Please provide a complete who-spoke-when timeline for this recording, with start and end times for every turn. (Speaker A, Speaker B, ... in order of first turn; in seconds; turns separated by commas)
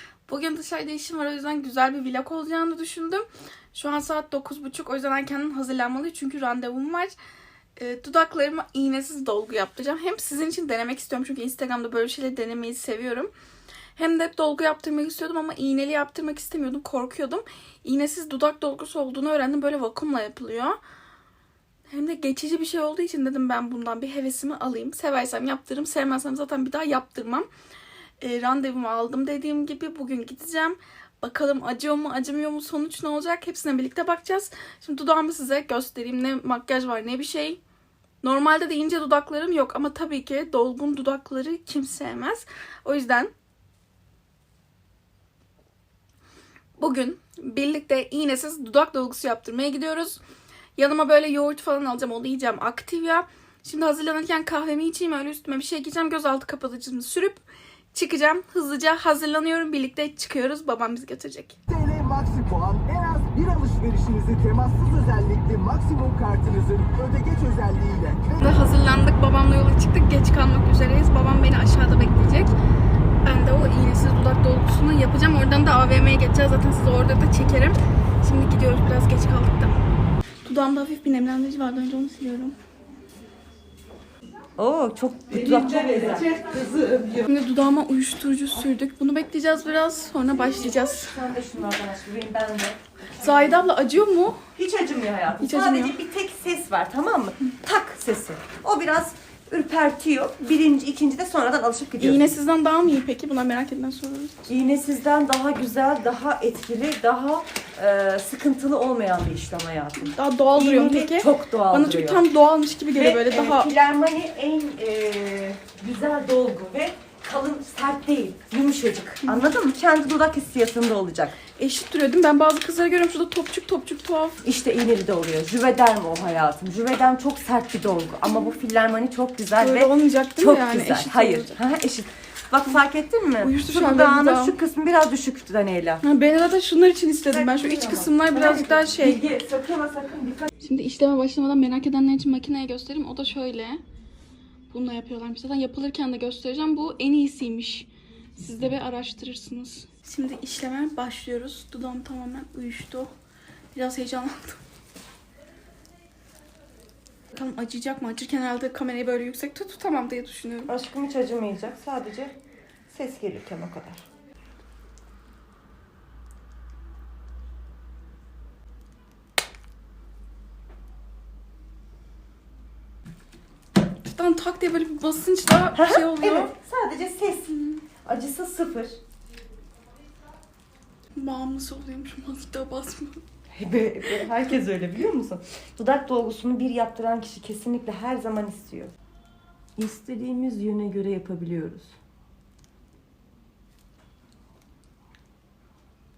Speaker A: 0.3-7.2, Speaker A: 7.8-13.3, Speaker A: 14.0-20.8, Speaker A: 21.9-27.5, Speaker A: 28.2-37.6, Speaker A: 38.2-43.3, Speaker A: 46.8-50.2, Speaker A: 50.8-61.6, Speaker B: 61.7-68.4, Speaker A: 68.4-72.5, Speaker A: 73.2-79.7, Speaker A: 80.5-82.5, Speaker C: 84.6-87.2, Speaker A: 87.2-91.2, Speaker C: 90.8-93.6, Speaker A: 93.2-94.5, Speaker C: 94.6-102.3, Speaker A: 95.4-96.0, Speaker A: 102.0-104.5, Speaker C: 104.5-112.2, Speaker A: 110.0-113.7, Speaker C: 112.9-121.4, Speaker A: 119.2-119.5, Speaker A: 121.6-124.4, Speaker C: 124.4-136.0, Speaker A: 129.6-131.6, Speaker A: 133.4-134.6, Speaker A: 136.0-139.3, Speaker C: 137.3-140.5, Speaker A: 140.6-143.8, Speaker A: 144.7-153.1, Speaker A: 153.7-154.6, Speaker A: 157.3-160.7, Speaker C: 160.7-162.3, Speaker C: 162.9-164.0, Speaker A: 174.1-176.5, Speaker C: 175.7-178.9, Speaker A: 177.5-177.8, Speaker A: 181.2-183.2, Speaker C: 183.5-188.9, Speaker C: 189.8-192.0